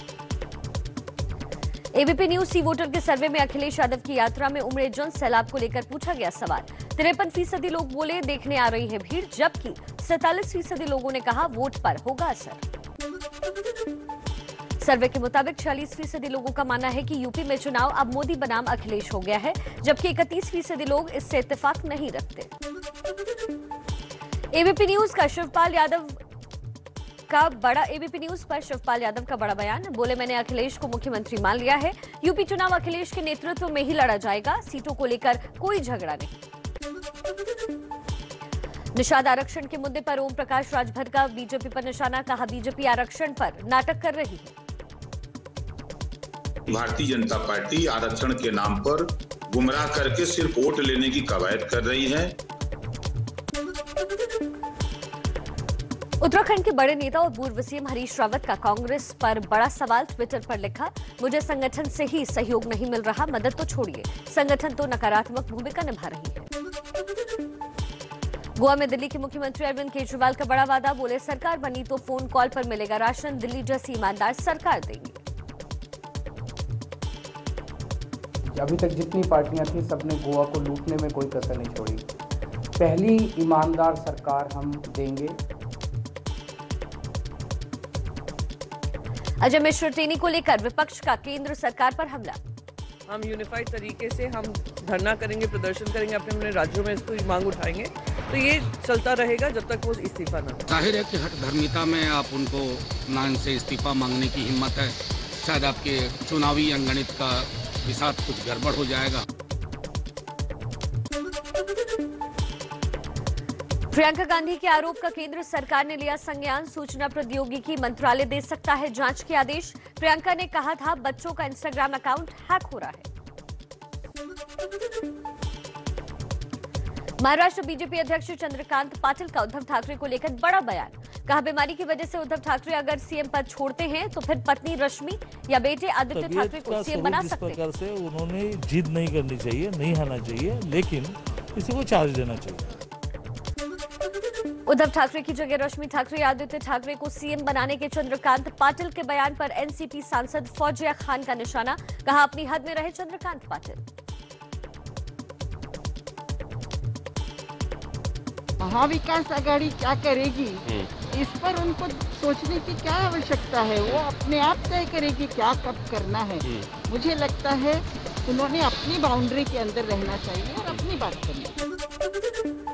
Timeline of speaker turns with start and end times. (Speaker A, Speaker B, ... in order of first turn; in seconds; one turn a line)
Speaker A: 1.9-12.6
Speaker A: 14.8-22.5
Speaker A: 24.5-26.2
Speaker A: 27.3-36.4
Speaker A: 39.0-44.5
Speaker B: 46.7-52.4
Speaker A: 56.2-66.5
Speaker A: 68.6-75.2
Speaker C: 78.5-82.0
Speaker C: 82.8-85.4
Speaker A: 89.4-92.4
Speaker D: 93.1-100.6
Speaker E: 100.7-109.2
Speaker A: 113.9-123.1
Speaker A: 127.2-137.6
Speaker F: 136.1-142.7
Speaker A: 144.7-153.8
Speaker G: 158.6-160.6
Speaker G: 161.2-171.6